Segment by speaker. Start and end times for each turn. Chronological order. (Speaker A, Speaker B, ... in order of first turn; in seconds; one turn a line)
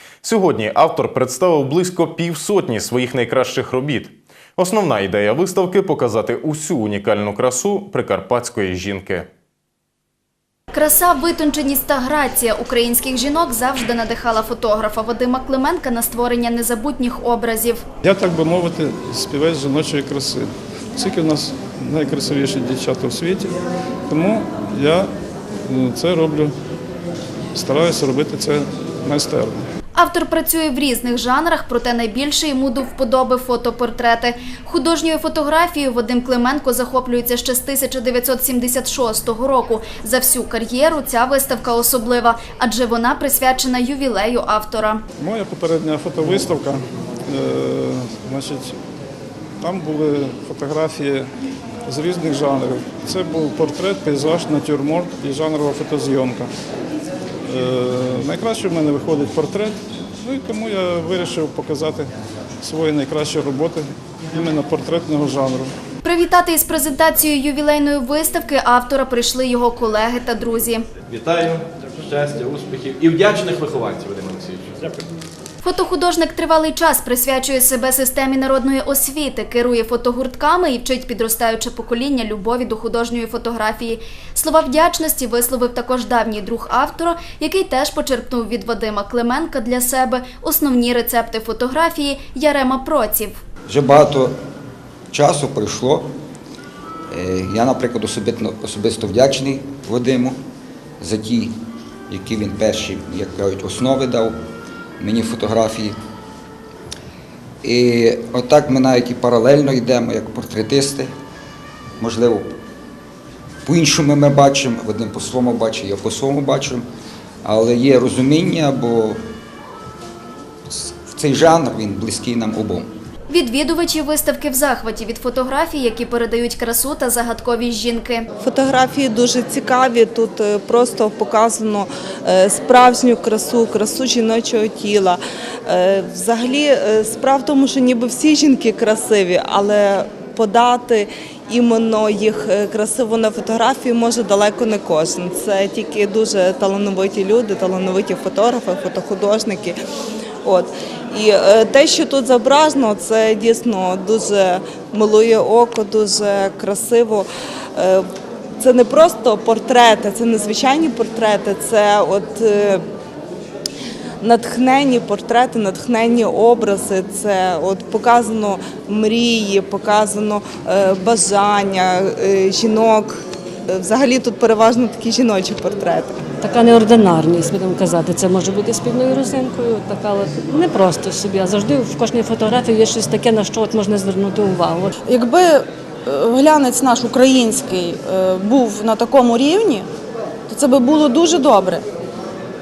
Speaker A: 0.2-9.3
Speaker B: 10.7-17.8
Speaker C: 18.0-23.5
Speaker C: 24.1-25.1
Speaker C: 25.7-26.5
Speaker C: 27.6-29.7
Speaker B: 29.9-45.0
Speaker C: 45.2-48.8
Speaker C: 49.6-51.3
Speaker C: 51.9-56.5
Speaker C: 57.5-62.1
Speaker C: 62.6-65.7
Speaker B: 66.0-70.8
Speaker D: 71.1-74.7
Speaker B: 75.6-93.4
Speaker E: 93.7-94.3
Speaker E: 95.1-96.1
Speaker E: 97.1-100.4
Speaker E: 101.0-101.5
Speaker E: 102.1-104.3
Speaker E: 105.0-106.0
Speaker E: 107.6-111.1
Speaker E: 112.0-112.5
Speaker E: 113.7-116.8
Speaker E: 117.5-119.2
Speaker E: 120.7-122.9
Speaker B: 123.3-128.3
Speaker F: 128.4-149.8
Speaker F: 150.4-158.1
Speaker F: 158.6-162.8
Speaker F: 164.2-176.2
Speaker G: 176.4-184.9
Speaker H: 185.0-189.9
Speaker H: 190.5-191.8